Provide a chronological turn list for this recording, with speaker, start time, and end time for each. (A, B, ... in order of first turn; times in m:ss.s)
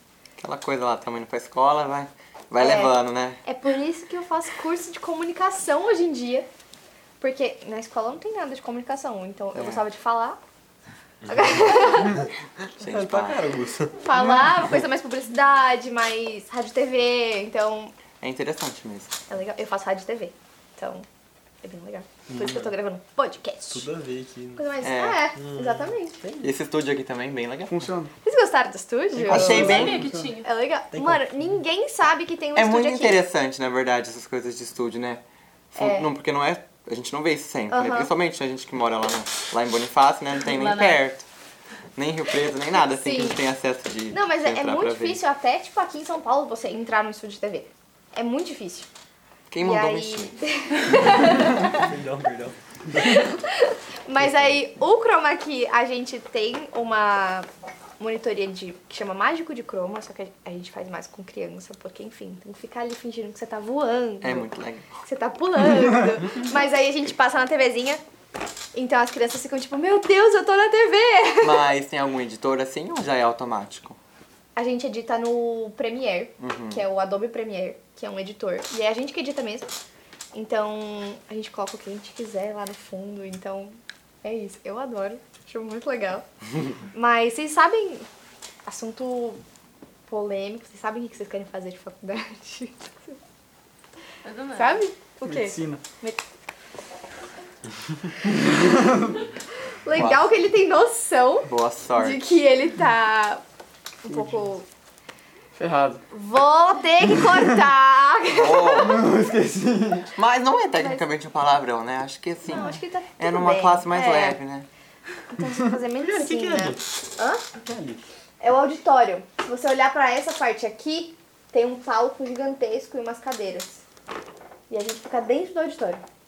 0:00.4-0:03.4 A
0:02.6-0:06.4 B
0:07.2-0:10.4 B
0:09.5-0:09.8 A
0:11.3-0:11.8 C
0:11.3-0:12.3 B
0:12.8-0:13.4 A
0:12.8-0:14.0 C
0:14.0-0:17.9 B
0:18.2-0:19.2 A
0:19.3-0:21.0 B
0:21.6-0:23.9 B
0:22.3-0:22.7 C
0:23.7-0:24.8 C
0:24.6-0:26.2 B
0:24.8-0:25.3 A
0:25.3-0:26.4 C
0:26.4-0:27.9 A
0:27.7-0:28.1 D
0:28.2-0:33.2 B
0:29.2-0:29.5 C
0:29.3-0:30.0 A
0:29.3-0:30.3 D
0:29.5-0:30.5 E
0:30.9-0:31.2 C
0:32.5-0:35.2 A
0:35.7-0:41.2 A
0:35.8-0:36.1 B
0:37.7-0:38.1 B
0:40.3-0:41.0 E
0:42.0-0:45.2 A
0:42.7-0:43.4 B
0:44.1-0:48.9 B
0:49.5-0:50.4 A
0:49.6-0:51.8 B
0:51.7-0:52.6 C
0:52.9-0:57.4 B
0:58.0-1:04.5 B
1:04.2-1:04.9 A
1:05.0-1:08.0 B
1:08.7-1:11.6 B
1:11.4-1:14.0 A
1:14.5-1:19.7 B
1:16.4-1:16.8 A
1:20.3-1:26.2 B
1:26.9-1:28.1 B
1:28.6-1:29.4 B
1:30.1-1:33.2 B
1:34.2-1:34.8 E
1:34.5-1:36.2 B
1:35.2-1:35.8 D
1:39.8-1:43.4 B
1:39.9-1:40.3 A
1:41.4-1:42.2 A
1:44.0-1:44.6 B
1:44.1-1:44.4 D
1:45.5-1:46.0 D
1:46.1-1:49.1 B
1:48.3-1:49.0 A
1:48.8-1:50.1 D
1:50.1-1:54.7 A
1:50.7-1:51.0 B
1:52.5-1:54.4 B
1:55.3-1:57.4 B
1:56.0-1:56.8 C
1:57.6-1:58.0 C
1:58.4-2:03.8 B
2:04.7-2:06.0 B